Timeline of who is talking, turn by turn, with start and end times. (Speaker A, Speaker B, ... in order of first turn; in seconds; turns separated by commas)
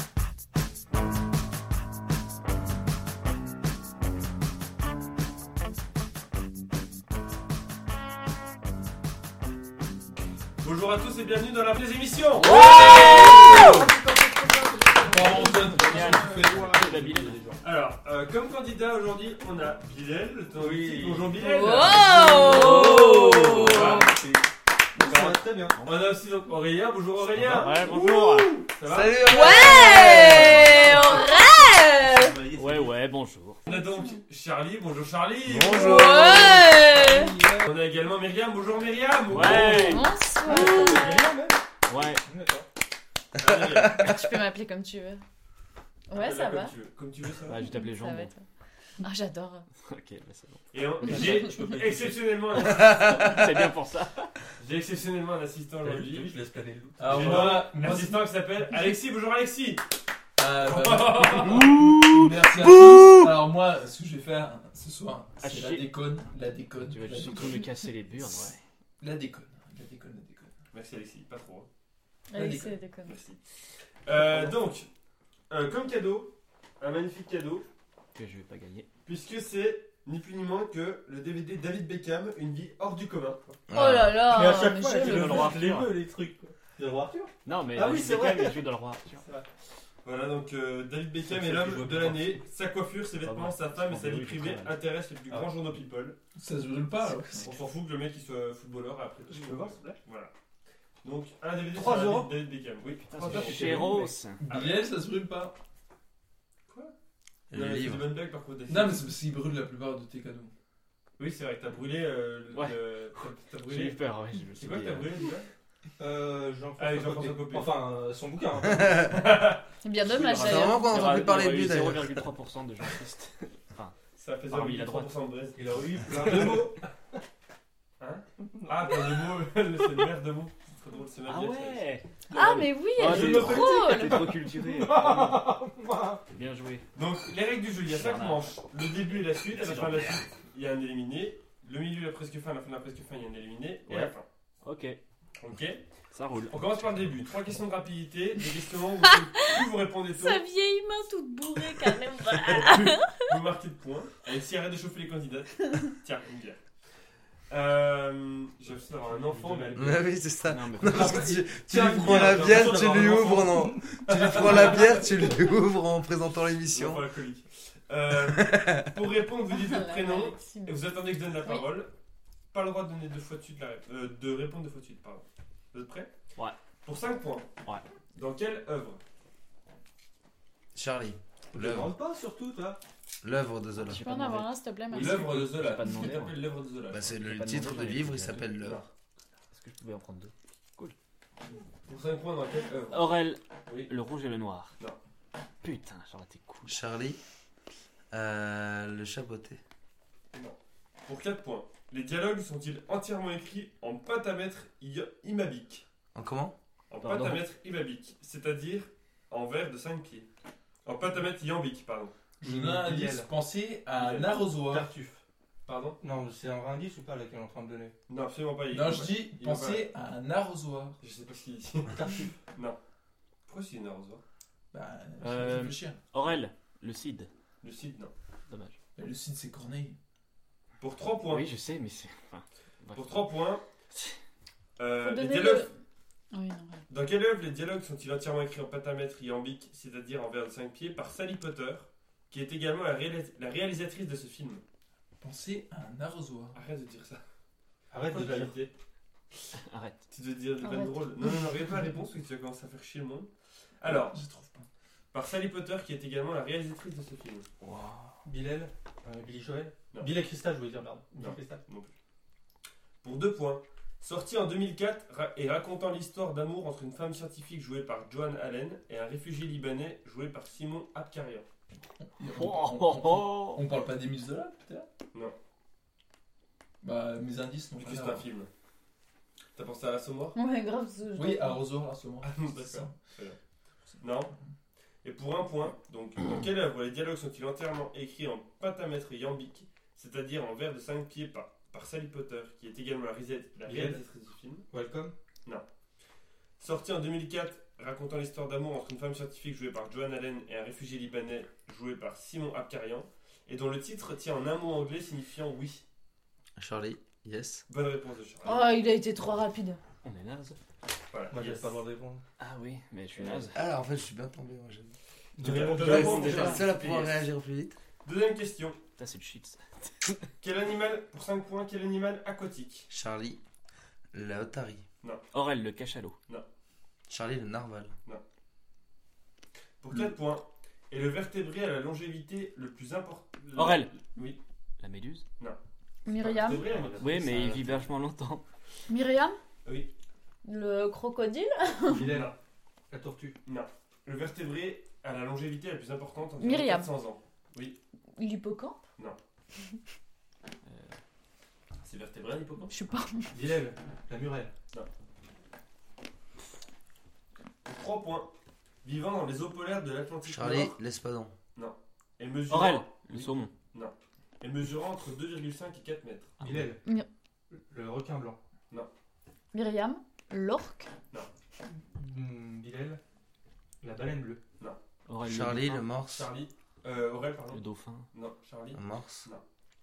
Speaker A: 10.6-13.9, Speaker B: 12.3-13.8, Speaker C: 12.4-13.7, Speaker D: 13.3-13.9, Speaker E: 14.8-17.6, Speaker A: 14.9-15.5, Speaker D: 15.1-17.3, Speaker B: 15.4-17.4, Speaker A: 17.6-24.1, Speaker B: 20.6-24.1, Speaker C: 21.4-24.0, Speaker E: 22.8-24.3, Speaker E: 24.9-25.8, Speaker A: 25.0-30.7, Speaker B: 25.8-26.1, Speaker B: 27.3-28.6, Speaker F: 28.8-30.7, Speaker C: 29.2-32.5, Speaker E: 32.4-32.9, Speaker D: 32.5-32.8, Speaker B: 32.5-33.6, Speaker C: 33.6-34.2, Speaker A: 33.6-36.4, Speaker F: 35.4-36.7, Speaker C: 35.6-37.4, Speaker A: 37.5-40.1, Speaker B: 39.3-40.1, Speaker C: 39.8-41.3, Speaker E: 40.4-42.7, Speaker B: 41.9-42.2, Speaker A: 43.4-44.1, Speaker F: 43.4-44.3, Speaker C: 44.0-45.2, Speaker C: 46.1-46.7, Speaker A: 46.1-47.6, Speaker B: 47.5-48.3, Speaker C: 47.6-48.4, Speaker C: 49.0-49.7, Speaker B: 49.8-51.7, Speaker A: 50.7-53.0, Speaker C: 51.2-51.5, Speaker F: 52.5-53.7, Speaker B: 52.5-54.3, Speaker A: 54.6-56.4, Speaker E: 55.8-57.8, Speaker D: 57.0-58.3, Speaker A: 57.1-59.8, Speaker D: 60.4-67.6, Speaker A: 60.5-61.7, Speaker B: 61.8-62.1, Speaker B: 65.4-65.8, Speaker B: 66.8-68.6, Speaker D: 69.0-70.5, Speaker A: 70.7-71.7, Speaker C: 72.3-73.2, Speaker D: 72.3-72.8, Speaker A: 73.0-74.9, Speaker A: 75.5-77.7, Speaker B: 78.1-78.9, Speaker A: 79.0-83.6, Speaker F: 83.7-84.2, Speaker C: 83.7-85.6, Speaker E: 84.2-88.6, Speaker B: 85.0-85.9, Speaker B: 87.4-89.2, Speaker E: 89.2-89.5, Speaker A: 90.0-96.2, Speaker D: 91.3-92.4, Speaker B: 93.2-94.8, Speaker D: 96.3-97.6, Speaker A: 97.3-100.3, Speaker E: 99.3-100.0, Speaker A: 101.0-103.7, Speaker E: 101.7-102.4, Speaker B: 103.1-104.4, Speaker E: 103.2-104.2, Speaker D: 104.4-105.5, Speaker A: 104.5-105.0, Speaker F: 107.5-108.1, Speaker A: 107.5-109.2, Speaker D: 108.7-110.5, Speaker A: 111.2-114.0, Speaker B: 112.5-112.9, Speaker B: 113.6-115.1, Speaker A: 114.5-115.5, Speaker E: 116.0-119.0, Speaker A: 116.8-117.8, Speaker F: 118.6-119.1, Speaker A: 119.1-119.6, Speaker C: 119.8-121.1, Speaker B: 120.0-124.0, Speaker F: 120.4-122.2, Speaker A: 124.2-126.6, Speaker B: 124.5-125.2, Speaker E: 125.5-126.9, Speaker A: 128.0-131.8, Speaker E: 128.5-129.0, Speaker B: 131.2-135.4, Speaker C: 132.3-134.4, Speaker E: 133.1-136.2, Speaker B: 136.3-136.8, Speaker A: 136.9-144.2, Speaker B: 137.9-138.5, Speaker B: 139.3-140.3, Speaker B: 143.9-145.0, Speaker A: 145.4-145.8, Speaker B: 146.1-146.9, Speaker A: 146.5-150.4, Speaker C: 150.1-153.4, Speaker A: 152.3-156.6, Speaker A: 157.5-160.1, Speaker B: 158.8-161.4, Speaker F: 159.7-167.1, Speaker E: 161.3-163.9, Speaker A: 161.7-165.3, Speaker A: 166.7-171.9, Speaker F: 168.1-169.0, Speaker C: 169.5-170.8, Speaker C: 171.3-171.7, Speaker A: 172.5-176.1, Speaker A: 176.8-177.5, Speaker A: 178.1-179.0, Speaker F: 180.7-181.9, Speaker E: 181.5-182.8, Speaker F: 183.2-184.0, Speaker B: 183.8-186.4, Speaker C: 183.9-185.2, Speaker A: 184.9-187.1, Speaker D: 185.0-186.2, Speaker F: 186.9-188.8, Speaker B: 187.1-188.5, Speaker A: 188.6-188.9, Speaker B: 189.5-190.9, Speaker A: 191.8-193.2, Speaker B: 192.9-194.8, Speaker B: 195.6-196.8, Speaker F: 196.7-197.2, Speaker F: 198.1-199.6, Speaker A: 200.3-205.8, Speaker F: 206.1-206.5, Speaker A: 206.9-210.3, Speaker B: 207.0-207.4, Speaker A: 210.8-212.1, Speaker E: 212.4-213.3, Speaker D: 212.4-214.9, Speaker A: 213.9-214.4, Speaker E: 214.6-215.2, Speaker A: 215.7-216.0, Speaker E: 216.0-217.9, Speaker A: 218.1-219.9, Speaker D: 218.7-221.0, Speaker A: 221.0-222.8, Speaker E: 221.9-222.4, Speaker A: 223.5-224.2, Speaker D: 224.7-226.0, Speaker B: 225.2-227.3, Speaker A: 227.6-228.1, Speaker B: 228.5-228.8, Speaker D: 228.9-230.0, Speaker A: 230.8-231.4, Speaker B: 231.3-233.3, Speaker A: 232.9-233.6, Speaker A: 234.8-235.7, Speaker C: 235.0-235.7, Speaker C: 236.3-236.8, Speaker A: 236.9-244.6, Speaker D: 245.2-246.6, Speaker A: 246.5-247.2, Speaker E: 247.9-248.6, Speaker A: 248.1-248.7, Speaker B: 249.7-250.0, Speaker A: 250.1-254.2, Speaker C: 250.6-251.1, Speaker D: 253.8-254.7, Speaker A: 255.1-257.5, Speaker B: 257.6-258.2, Speaker E: 258.2-261.6, Speaker A: 261.1-261.9, Speaker A: 263.0-271.5, Speaker D: 272.0-274.9, Speaker B: 272.3-273.6, Speaker D: 276.8-278.3, Speaker A: 277.8-278.5, Speaker A: 279.5-280.4, Speaker C: 280.3-281.6, Speaker D: 281.1-283.0, Speaker A: 282.2-283.4, Speaker D: 283.9-284.4, Speaker A: 284.0-284.3, Speaker A: 285.0-294.6, Speaker E: 293.6-294.0, Speaker E: 294.7-295.1, Speaker A: 296.6-305.8, Speaker F: 306.6-307.6, Speaker A: 307.7-308.7, Speaker C: 308.4-309.8, Speaker B: 310.0-310.6, Speaker A: 311.1-311.8, Speaker E: 311.3-312.2, Speaker B: 312.4-313.6, Speaker A: 313.2-313.4, Speaker F: 313.5-317.8, Speaker E: 315.4-316.6, Speaker A: 315.4-317.3, Speaker A: 318.0-318.8, Speaker B: 319.0-320.3, Speaker A: 320.4-322.9, Speaker F: 322.9-323.4, Speaker F: 324.1-324.8, Speaker B: 325.3-326.2, Speaker F: 327.1-327.9, Speaker A: 329.8-334.4, Speaker B: 333.5-333.9, Speaker B: 334.8-335.2, Speaker C: 336.0-336.8, Speaker A: 336.1-337.7, Speaker E: 336.4-337.1, Speaker B: 337.0-338.4, Speaker C: 338.9-339.4, Speaker A: 339.6-339.9, Speaker C: 340.4-342.1, Speaker E: 341.9-342.3, Speaker A: 342.1-342.3, Speaker E: 342.9-343.4, Speaker A: 343.4-347.8, Speaker C: 346.4-346.9, Speaker C: 348.1-348.8, Speaker B: 350.6-351.0, Speaker A: 351.8-352.7, Speaker C: 352.7-353.3, Speaker E: 353.3-354.5, Speaker A: 357.6-358.3, Speaker A: 358.8-360.8, Speaker F: 360.2-361.3, Speaker A: 361.5-366.4, Speaker B: 362.5-363.5, Speaker B: 366.4-366.7, Speaker E: 366.4-366.8, Speaker E: 367.5-368.4, Speaker C: 369.5-370.9, Speaker E: 371.7-373.0, Speaker E: 373.8-374.4, Speaker B: 375.1-375.9, Speaker F: 375.2-376.3, Speaker A: 376.1-379.4, Speaker B: 377.5-378.1, Speaker F: 378.7-379.3